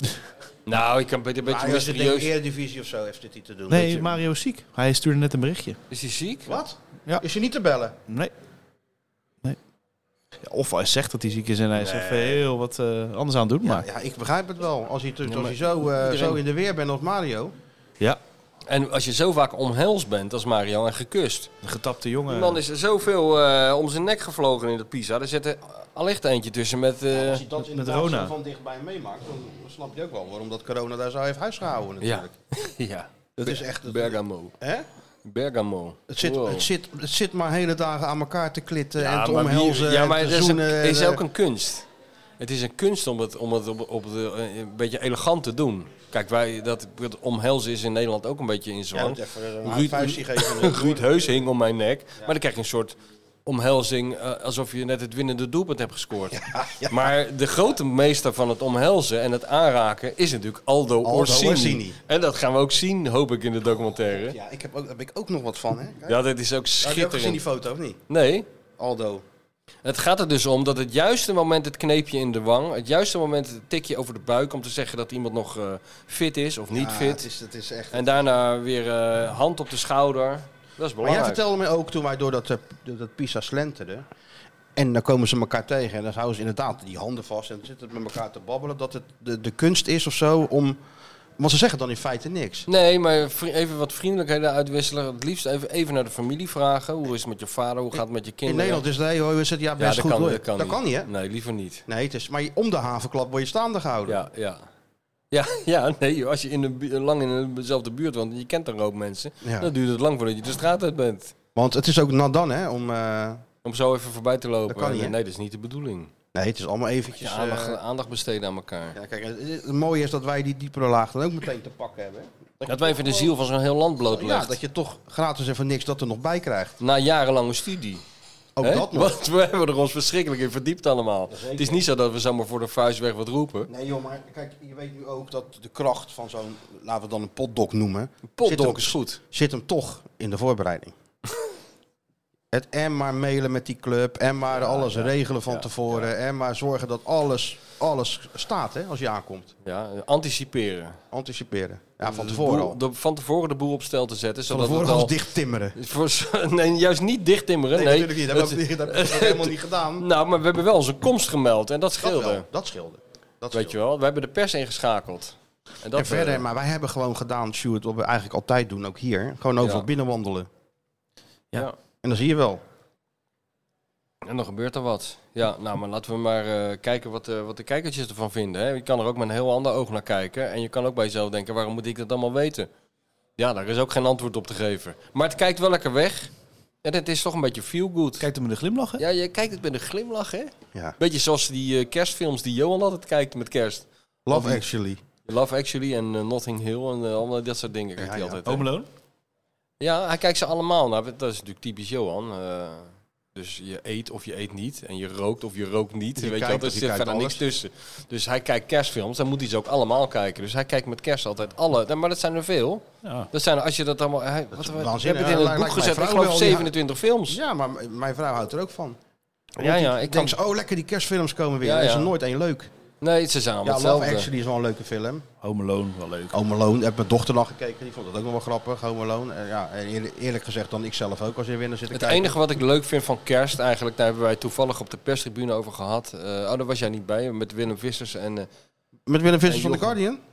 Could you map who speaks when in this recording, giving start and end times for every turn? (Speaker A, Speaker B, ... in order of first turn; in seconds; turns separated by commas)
Speaker A: 0.7-2.3, Speaker B: 1.4-4.2, Speaker C: 3.7-5.8, Speaker A: 5.9-6.5, Speaker B: 6.5-8.0, Speaker C: 10.4-13.9, Speaker A: 11.8-12.4, Speaker B: 13.6-17.5, Speaker A: 15.3-16.4, Speaker A: 18.7-21.5, Speaker C: 21.6-22.6, Speaker A: 22.3-27.4, Speaker B: 27.1-32.3, Speaker C: 27.7-28.3, Speaker A: 32.0-34.5, Speaker B: 33.4-34.9, Speaker A: 35.2-36.7, Speaker B: 36.1-41.2, Speaker A: 39.0-41.9, Speaker A: 42.4-64.4, Speaker B: 48.9-51.3, Speaker B: 56.3-57.1, Speaker B: 61.0-62.0, Speaker B: 64.0-66.2, Speaker A: 66.1-67.4, Speaker B: 66.8-68.0, Speaker A: 68.1-68.5, Speaker B: 68.8-69.2, Speaker A: 69.8-77.3, Speaker B: 76.7-78.2, Speaker A: 77.9-81.4, Speaker B: 81.0-84.1, Speaker B: 84.8-90.8, Speaker B: 91.4-92.7, Speaker A: 92.7-98.8, Speaker B: 98.5-101.1, Speaker A: 99.8-101.8, Speaker B: 101.9-104.2, Speaker A: 104.1-104.7, Speaker A: 105.3-111.3, Speaker B: 109.4-109.7, Speaker B: 111.5-113.4, Speaker A: 113.6-116.1, Speaker B: 114.7-115.2, Speaker B: 116.3-117.8, Speaker A: 117.2-119.0, Speaker B: 119.0-123.3, Speaker A: 122.7-124.6, Speaker B: 124.1-126.8, Speaker A: 126.8-128.0, Speaker B: 128.6-129.2, Speaker A: 128.6-133.7, Speaker B: 131.3-131.8, Speaker B: 133.7-140.9, Speaker A: 138.4-139.2, Speaker B: 142.5-149.5, Speaker A: 144.6-145.7, Speaker A: 149.7-151.0, Speaker B: 151.1-152.8, Speaker A: 152.0-155.2, Speaker B: 154.5-155.8, Speaker A: 155.8-162.5, Speaker B: 157.7-160.1, Speaker B: 162.0-163.8, Speaker A: 163.5-166.4, Speaker B: 165.9-170.5, Speaker A: 169.6-169.9, Speaker B: 172.0-172.6, Speaker A: 174.2-182.7, Speaker A: 183.4-186.3, Speaker A: 186.8-188.3, Speaker C: 188.2-189.0, Speaker A: 189.0-194.6, Speaker B: 194.3-195.0, Speaker A: 195.3-198.6, Speaker B: 198.0-198.4, Speaker C: 198.5-198.9, Speaker A: 199.8-217.4, Speaker B: 206.2-207.4, Speaker B: 214.5-216.7, Speaker B: 217.3-219.0, Speaker A: 219.6-220.4, Speaker B: 219.6-222.7, Speaker A: 221.6-222.1, Speaker A: 223.0-224.3, Speaker B: 223.6-225.3, Speaker C: 225.4-226.4, Speaker B: 226.3-232.4, Speaker A: 231.9-238.5, Speaker B: 239.1-240.2, Speaker A: 239.5-240.0